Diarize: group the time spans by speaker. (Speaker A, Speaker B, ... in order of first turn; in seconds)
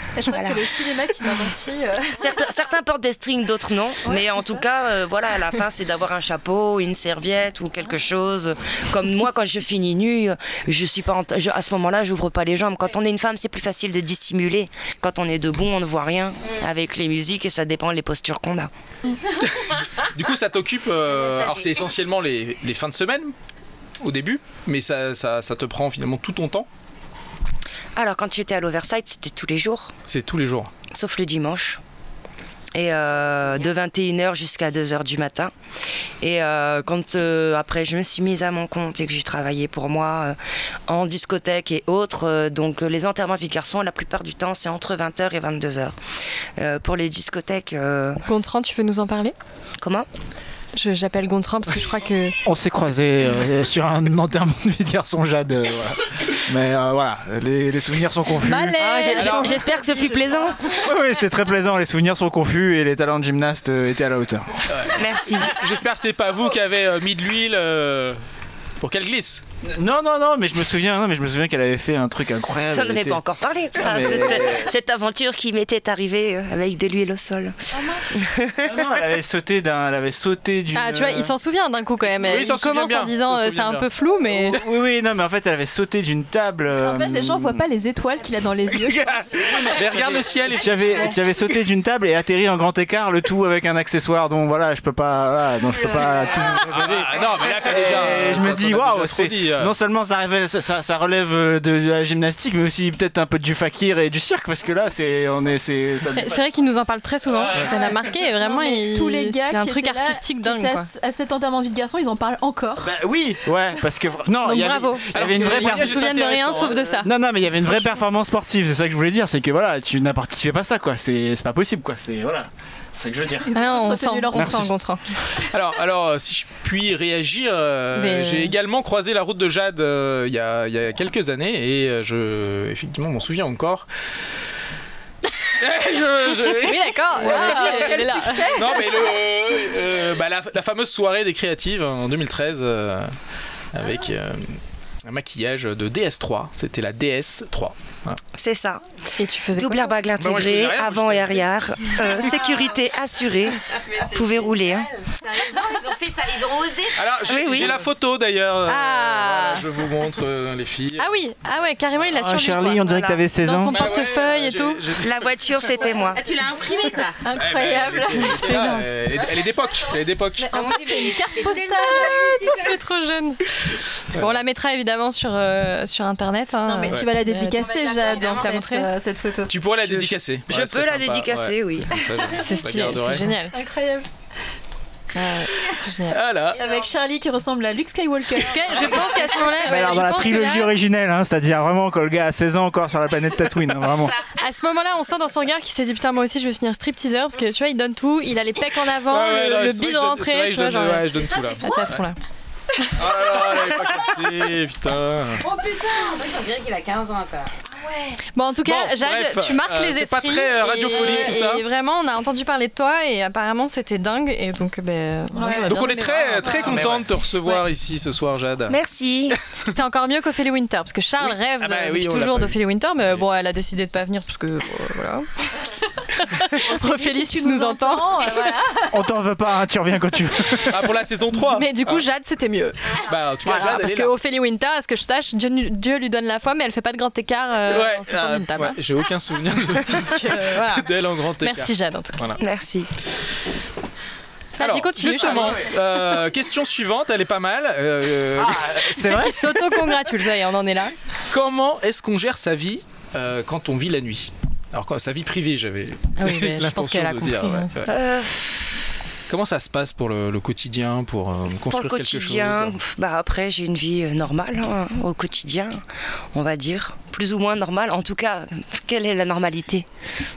Speaker A: 0.1-2.3, 4.1-4.6, 59.1-60.7, 77.7-78.0, 86.8-89.5, 107.5-112.9, 123.4-124.7, 137.2-139.1, 167.2-168.6, 169.2-169.5, 170.4-172.7, 176.6-179.5, 183.5-184.1, 186.5-190.2, 215.3-216.9, 226.6-229.1
Speaker B: 0.2-0.7, 2.1-18.7, 27.9-29.9, 30.9-31.8, 32.7-35.5, 36.2-46.0, 46.6-48.2, 49.8-50.1, 58.8-60.7, 64.9-65.6, 72.7-77.6, 78.1-78.9, 148.3-148.8, 149.5-154.9, 157.2-157.8, 162.9-163.2, 165.0-166.3, 179.9-182.1, 218.7-219.4, 242.4-242.9, 257.9-258.7, 261.7-265.8, 266.3-269.9
Speaker C: 19.4-23.3, 24.0-26.7, 30.1-30.7, 59.2-59.6, 64.7-68.2, 68.8-69.4, 82.1-83.9, 89.3-91.1, 96.6-99.7, 115.1-116.9, 125.4-133.9, 135.6-143.1, 143.7-148.2, 150.2-152.0, 156.9-161.2, 163.7-165.7, 167.3-170.6, 174.1-174.4, 179.5-183.3, 186.1-186.6, 199.1-202.0, 202.9-205.5, 208.6-211.6, 215.5-218.8, 221.2-222.6, 230.6-232.0, 232.9-234.1, 237.6-242.4, 244.6-249.1, 251.3-258.0, 259.3-262.8
Speaker D: 21.4-21.6, 153.9-157.6, 165.9-167.3, 170.5-172.7, 205.4-207.6
Speaker E: 48.2-49.3, 50.7-52.4, 58.4-59.8, 80.7-84.6, 106.1-110.9, 114.4-117.1, 123.5-125.0, 127.9-128.5, 136.4-138.8, 149.2-149.9, 158.7-159.6, 161.0-164.8, 168.2-168.9, 171.9-173.4, 174.2-178.9, 182.3-183.6, 185.1-186.2, 188.4-190.7, 194.3-202.2, 208.2-217.6, 219.7-225.3, 226.1-228.5, 231.4-238.8, 239.7-242.2, 244.6-245.7, 249.0-250.9, 256.2-257.7
Speaker F: 52.5-58.8, 60.7-64.6, 69.6-73.2, 73.7-74.7, 78.6-81.3, 84.3-87.7, 88.9-106.5, 112.8-123.8, 124.3-124.7, 162.1-163.8, 189.6-194.2, 228.9-230.8, 248.4-249.6